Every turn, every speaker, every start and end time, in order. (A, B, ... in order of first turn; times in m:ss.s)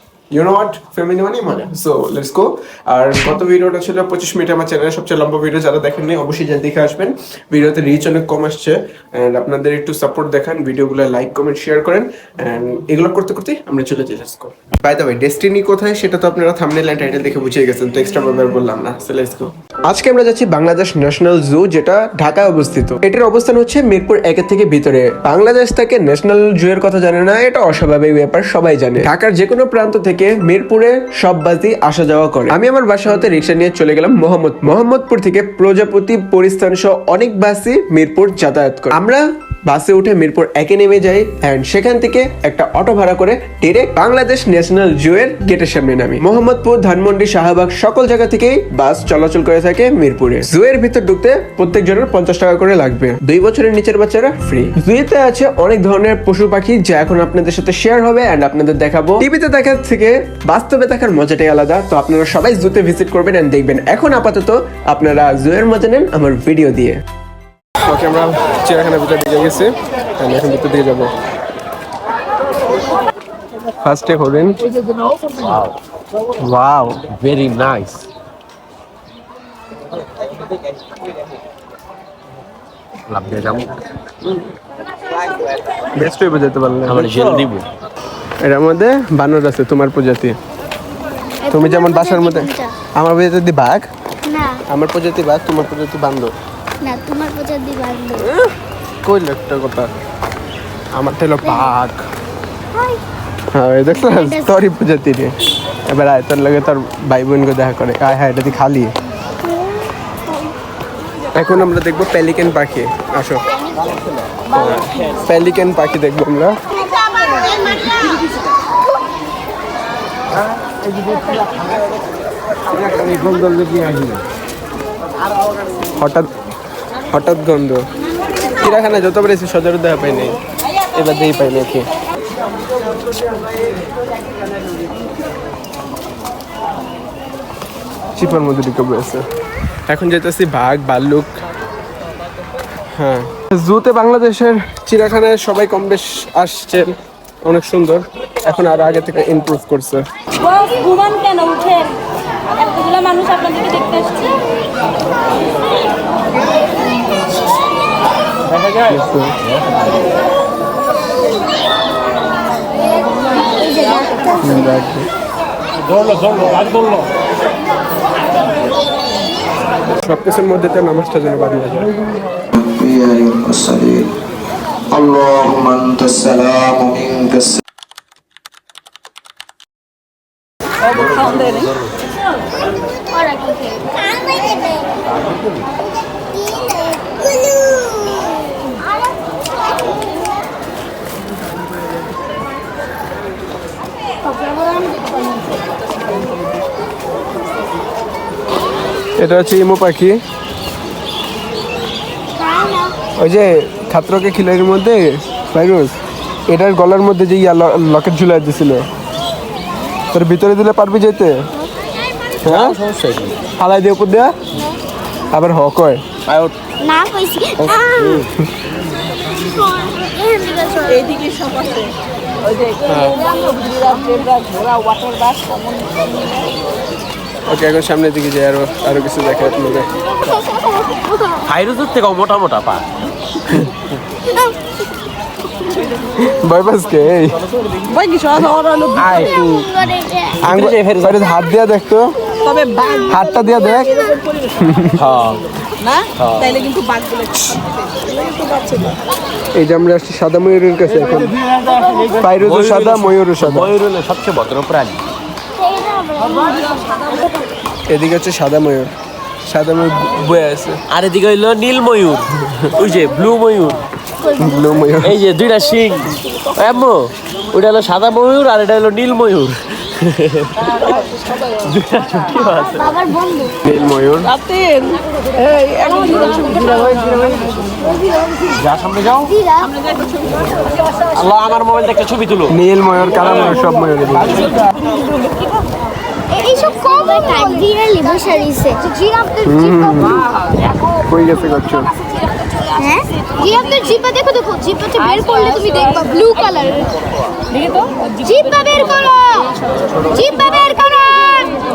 0:00.3-1:07.0 A
1:07.8-1:11.1 A
1:13.8-1:14.6 A
1:15.3-1:15.7 B
1:16.4-1:17.0 A
1:17.1-1:18.1 B
1:23.1-1:23.8 B
1:26.0-1:27.5 A
1:26.9-1:27.7 B
1:28.4-1:30.4 A
1:31.4-1:32.8 C
1:31.5-1:33.9 A
1:34.2-1:34.6 C
1:34.7-1:36.3 A
1:36.8-1:38.3 C
1:39.0-1:39.9 A
1:41.0-1:42.0 A
1:41.4-1:41.7 C
1:42.7-1:43.0 C
1:43.5-1:45.3 A
1:43.9-1:44.6 C
1:45.9-1:48.9 A
1:49.4-1:49.9 C
1:51.4-1:53.4 A
1:53.5-1:53.9 C
1:54.5-1:56.5 A
2:02.8-2:04.2 B
2:06.0-2:06.3 A
2:07.1-2:07.8 A
2:08.6-2:10.4 A
2:10.9-2:11.9 A
2:18.2-2:19.2 A
2:19.9-2:21.4 A
2:23.0-2:26.9 A
2:27.4-2:30.0 A
2:31.0-2:31.6 D
2:33.0-2:33.5 D
2:38.8-2:39.4 A
2:39.5-2:39.9 B
2:43.6-2:44.7 C
2:44.4-2:45.1 A
2:45.9-2:47.0 B
2:50.0-2:51.9 A
2:52.5-2:54.1 E
2:54.9-2:57.6 E
3:01.0-3:01.8 B
3:03.1-3:04.9 C
3:05.1-3:05.6 B
3:06.3-3:08.8 C
3:19.2-3:20.2 A
3:22.4-3:23.0 C
3:23.2-3:26.0 A
3:26.5-3:28.9 A
3:30.1-3:31.4 A
3:32.4-3:32.8 A
3:32.4-3:33.4 B
3:33.6-3:34.3 A
3:34.5-3:34.8 C
3:35.3-3:36.0 A
3:36.3-3:36.5 B
3:36.8-3:38.2 C
3:37.6-3:38.3 B
3:39.5-3:41.2 C
3:41.1-3:41.9 D
3:42.8-3:43.2 A
3:43.3-3:46.1 D
3:47.5-3:49.9 A
3:50.3-3:51.5 C
3:51.5-3:52.9 B
3:53.4-3:53.6 B
3:56.2-3:57.4 A
3:57.8-3:59.1 D
3:59.0-3:59.7 B
3:59.4-4:00.4 C
4:00.4-4:02.1 A
4:00.4-4:01.2 B
4:02.4-4:03.0 D
4:02.8-4:03.1 C
4:03.0-4:04.0 A
4:04.6-4:05.0 A
4:05.0-4:05.4 B
4:06.2-4:06.6 B
4:06.6-4:09.0 D
4:09.6-4:11.3 A
4:12.2-4:13.7 A
4:12.4-4:15.0 B
4:15.6-4:17.4 C
4:17.9-4:18.9 A
4:19.5-4:20.8 A
4:20.9-4:23.8 B
4:24.2-4:24.9 C
4:24.4-4:25.2 A
4:25.0-4:33.0 B
4:32.4-4:33.6 C
4:33.6-4:34.3 A
4:34.4-4:37.3 D
4:36.6-4:37.1 B
4:38.6-4:39.3 B
4:39.2-4:39.7 C
4:41.1-4:42.5 B
4:42.5-4:44.5 A
4:46.3-4:48.9 C
4:49.4-4:50.3 A
4:49.6-4:50.1 C
4:51.1-4:51.9 A
4:52.8-4:56.8 C
4:55.1-4:56.6 D
4:58.3-4:59.5 C
4:58.3-4:58.7 D
5:00.1-5:01.6 C